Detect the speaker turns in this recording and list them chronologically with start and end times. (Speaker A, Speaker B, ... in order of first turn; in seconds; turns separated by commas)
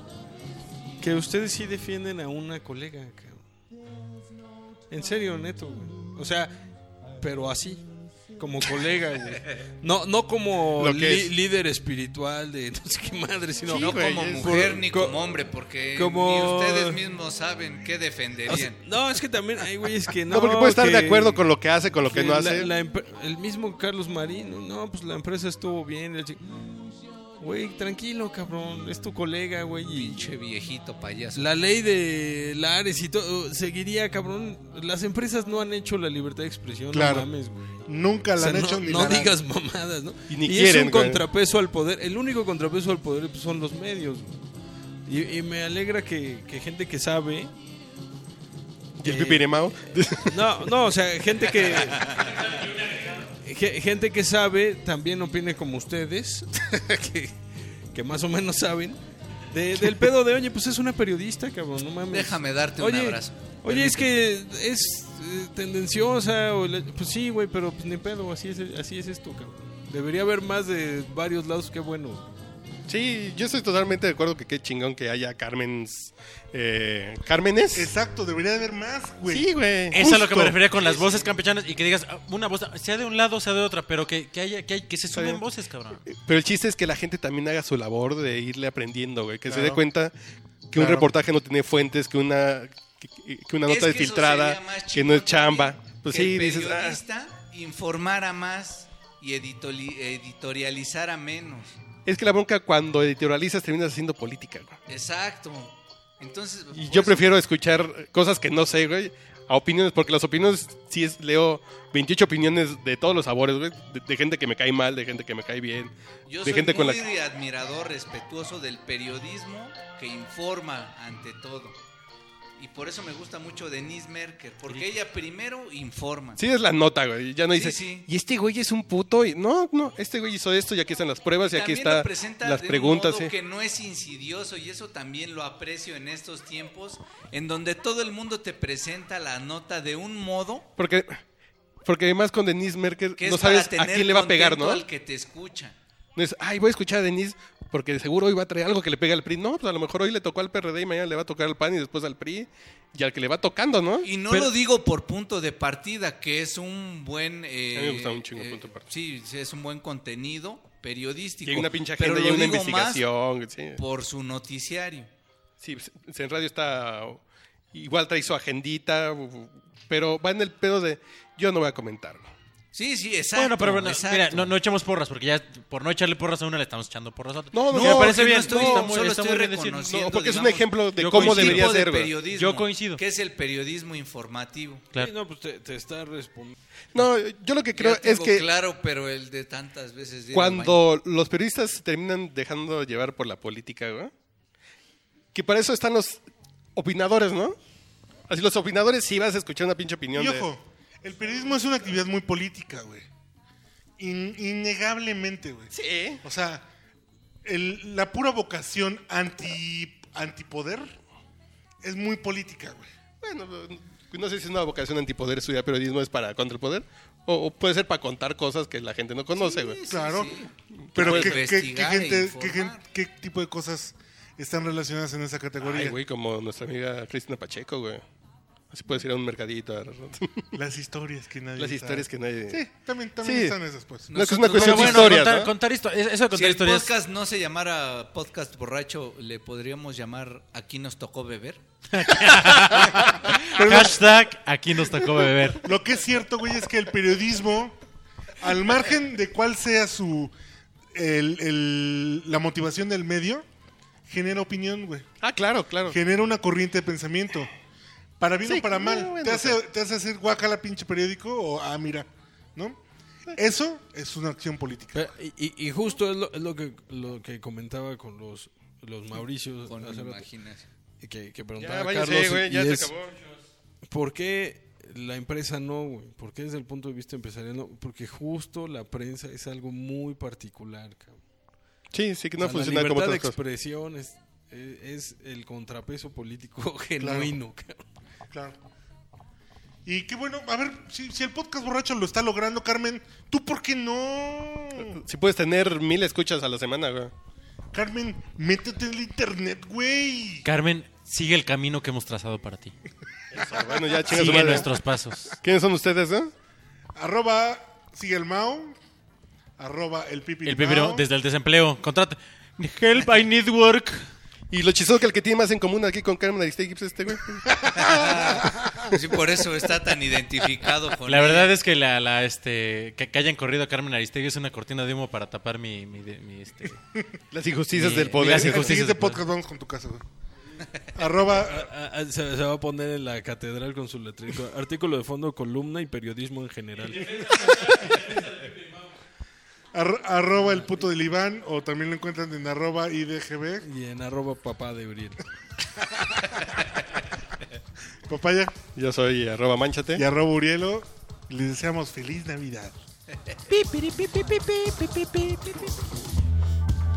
Speaker A: 1.0-3.5, Speaker A: 4.9-6.6, Speaker A: 7.2-15.3, Speaker B: 10.8-11.3, Speaker B: 13.7-14.6, Speaker C: 13.7-18.8, Speaker A: 15.9-17.0, Speaker A: 18.5-21.4, Speaker B: 20.3-22.7, Speaker A: 22.1-26.7, Speaker A: 27.4-30.2, Speaker C: 29.9-31.6, Speaker A: 31.3-44.4, Speaker D: 36.9-37.3, Speaker D: 37.9-39.4, Speaker B: 40.3-41.2, Speaker A: 45.0-47.5, Speaker B: 49.0-50.7, Speaker A: 49.0-49.5, Speaker A: 50.3-52.3, Speaker C: 52.0-52.2, Speaker E: 52.1-53.3, Speaker A: 53.4-57.4, Speaker A: 57.9-59.0, Speaker A: 59.5-72.3, Speaker C: 62.1-64.0, Speaker B: 72.9-77.9, Speaker D: 77.7-79.5, Speaker B: 79.3-80.6, Speaker E: 79.9-86.0, Speaker B: 85.1-85.4, Speaker B: 86.1-90.1, Speaker D: 89.5-89.8, Speaker B: 90.7-97.0, Speaker D: 90.8-91.1, Speaker C: 93.7-101.8, Speaker B: 102.0-104.8, Speaker C: 104.9-107.4, Speaker B: 106.7-117.0, Speaker C: 116.3-121.8, Speaker C: 122.6-126.4, Speaker B: 126.4-133.3, Speaker C: 127.5-128.1, Speaker C: 131.5-140.7, Speaker B: 140.8-141.2, Speaker B: 141.8-144.8, Speaker C: 143.2-145.7, Speaker B: 146.2-154.5, Speaker C: 154.0-163.1, Speaker B: 157.7-158.8, Speaker B: 161.4-163.8, Speaker C: 163.7-165.1, Speaker B: 165.6-167.2, Speaker B: 167.7-172.3, Speaker C: 172.7-174.5, Speaker E: 173.3-179.8, Speaker B: 177.5-178.9, Speaker C: 177.7-184.9, Speaker B: 179.7-182.1, Speaker E: 180.9-181.7, Speaker E: 182.3-183.0, Speaker A: 184.9-186.6, Speaker B: 186.9-188.4, Speaker C: 187.7-190.8, Speaker B: 190.3-194.1, Speaker B: 195.3-196.2, Speaker B: 196.8-197.6, Speaker B: 198.3-200.4, Speaker D: 200.1-203.1, Speaker D: 204.0-206.7, Speaker B: 205.7-206.2, Speaker D: 207.4-210.9, Speaker D: 211.8-212.9, Speaker B: 213.2-219.8, Speaker C: 219.3-222.8, Speaker D: 219.9-220.3, Speaker B: 220.8-221.4, Speaker D: 220.9-226.0, Speaker B: 225.6-228.0, Speaker B: 228.7-230.5, Speaker D: 230.5-234.1, Speaker B: 231.6-232.6, Speaker B: 233.2-233.6, Speaker C: 234.1-235.4, Speaker B: 234.1-235.5, Speaker E: 234.5-236.9, Speaker C: 236.3-241.6, Speaker E: 241.9-245.6, Speaker D: 243.5-244.0, Speaker D: 245.6-247.8, Speaker D: 248.4-250.3, Speaker D: 250.9-253.4, Speaker D: 254.1-255.1, Speaker B: 255.2-256.0, Speaker D: 255.9-257.5, Speaker D: 258.2-262.8, Speaker B: 258.4-259.6, Speaker D: 263.3-265.1, Speaker A: 264.9-270.2, Speaker C: 269.6-270.6, Speaker A: 271.0-272.9, Speaker B: 271.6-273.1, Speaker A: 273.9-281.2, Speaker B: 281.9-283.3, Speaker A: 282.4-287.8, Speaker D: 287.0-287.3, Speaker D: 288.3-288.6, Speaker D: 289.8-295.0, Speaker B: 294.9-297.1, Speaker D: 297.7-300.4, Speaker E: 300.4-302.7, Speaker B: 303.3-304.8, Speaker D: 303.4-304.6, Speaker E: 304.1-305.4, Speaker B: 305.3-306.3, Speaker D: 306.9-308.8, Speaker D: 309.6-311.1, Speaker E: 310.4-314.1, Speaker B: 314.5-318.1, Speaker D: 317.5-318.9, Speaker C: 317.7-321.5, Speaker E: 321.1-326.8, Speaker B: 327.3-328.8, Speaker E: 327.7-329.2, Speaker D: 328.2-330.0, Speaker D: 330.9-331.7, Speaker A: 331.4-337.4, Speaker E: 337.0-338.6, Speaker D: 339.7-343.7, Speaker A: 343.6-345.2, Speaker D: 345.9-346.2, Speaker D: 348.1-348.5, Speaker B: 348.7-350.0, Speaker D: 349.9-352.8, Speaker E: 353.5-355.6